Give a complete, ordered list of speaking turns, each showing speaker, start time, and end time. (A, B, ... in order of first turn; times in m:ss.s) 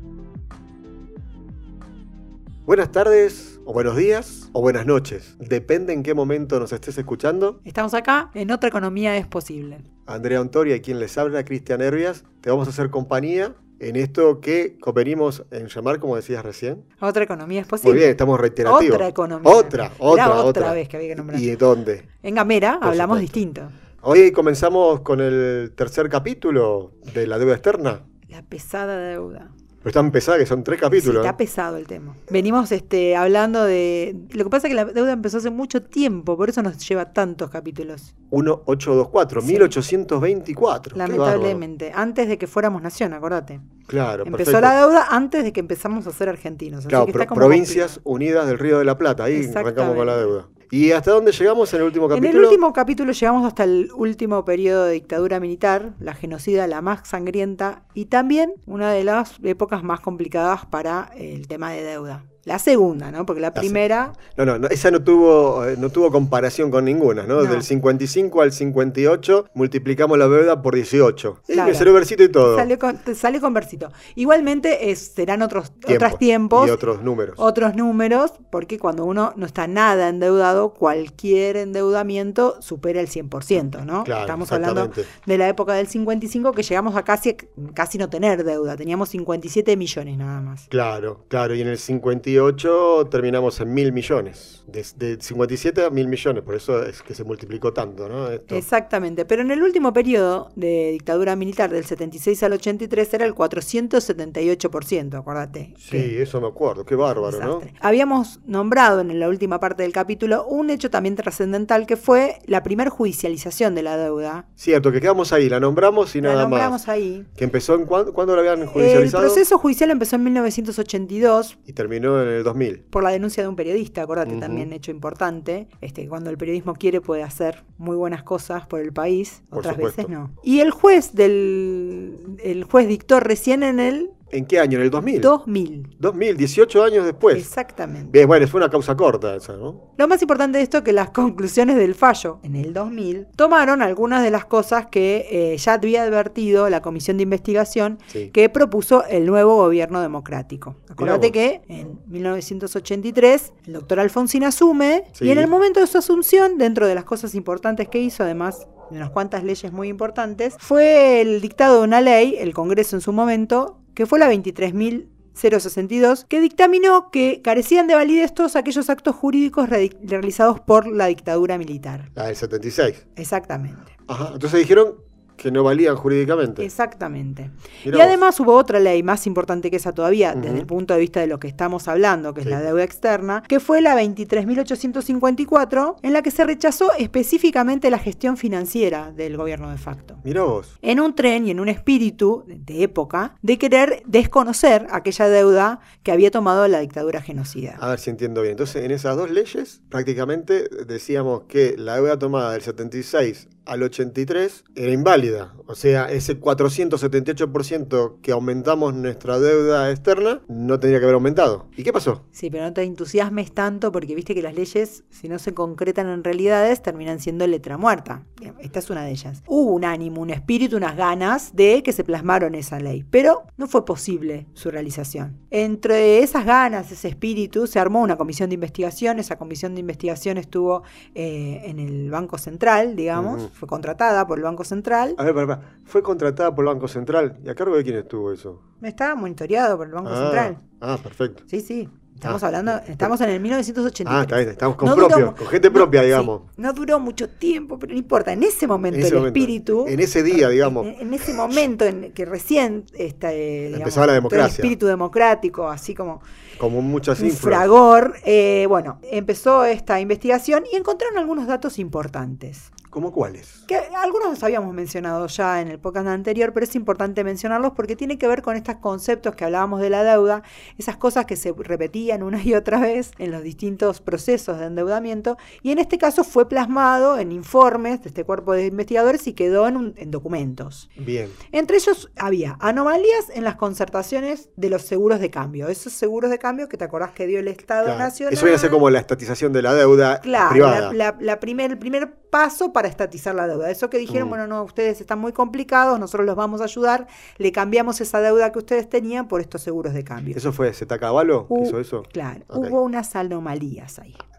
0:02.7-0:07.6 A
0:07.6-0:09.8 B
0:10.1-0:16.8 A
0:17.0-0:18.1 B
0:17.8-0:22.1 A
0:18.6-0:21.5 B
0:22.2-0:23.7 B
0:22.8-0:23.4 A
0:24.0-0:28.0 A
0:28.3-0:29.5 B
0:29.8-0:31.4 A
0:30.9-0:38.1 B
0:38.3-0:41.6 A
0:39.4-0:39.7 B
0:41.0-0:43.7 B
0:43.9-0:44.8 A
0:44.2-0:48.0 B
0:46.9-0:52.6 A
0:49.3-0:50.3 B
0:52.1-1:04.2 B
1:03.6-1:12.7 A
1:07.4-1:07.7 B
1:11.5-1:16.8 B
1:15.9-1:17.4 A
1:17.4-1:30.7 B
1:24.0-1:25.1 A
1:30.7-1:38.6 A
1:38.5-1:46.1 B
1:45.8-1:47.7 A
1:47.2-1:54.5 B
1:54.6-1:56.8 A
1:56.2-1:57.3 B
1:57.4-1:59.4 A
1:58.7-2:01.6 B
2:01.7-2:02.8 A
2:02.9-2:14.2 B
2:04.2-2:04.7 A
2:09.5-2:10.1 A
2:14.3-2:15.3 A
2:15.2-2:15.9 B
2:16.0-2:17.5 A
2:17.3-2:18.2 B
2:18.1-2:19.8 A
2:20.0-2:52.1 B
2:31.0-2:31.3 A
2:35.2-2:35.5 A
2:52.2-2:53.0 A
2:53.2-2:53.9 B
2:54.1-2:56.7 A
2:56.6-3:10.2 B
2:57.8-2:58.2 A
3:00.3-3:00.7 A
3:10.2-3:10.7 A
3:10.8-3:17.8 B
3:17.8-3:32.2 A
3:32.3-3:55.2 B
3:53.2-3:53.5 A
3:55.2-3:58.6 A
3:58.8-4:00.6 B
4:00.0-4:01.4 A
4:01.5-4:16.2 B
4:02.2-4:03.1 A
4:04.1-4:06.4 A
4:08.9-4:11.6 A
4:13.7-4:14.7 A
4:16.6-4:17.7 A
4:17.2-4:22.7 B
4:22.9-4:23.6 A
4:23.7-4:40.9 B
4:41.0-4:41.4 A
4:41.5-4:48.8 B
4:47.8-4:51.0 A
4:50.2-5:00.4 B
4:54.1-4:54.4 A
5:00.3-5:02.8 A
5:01.5-5:04.2 B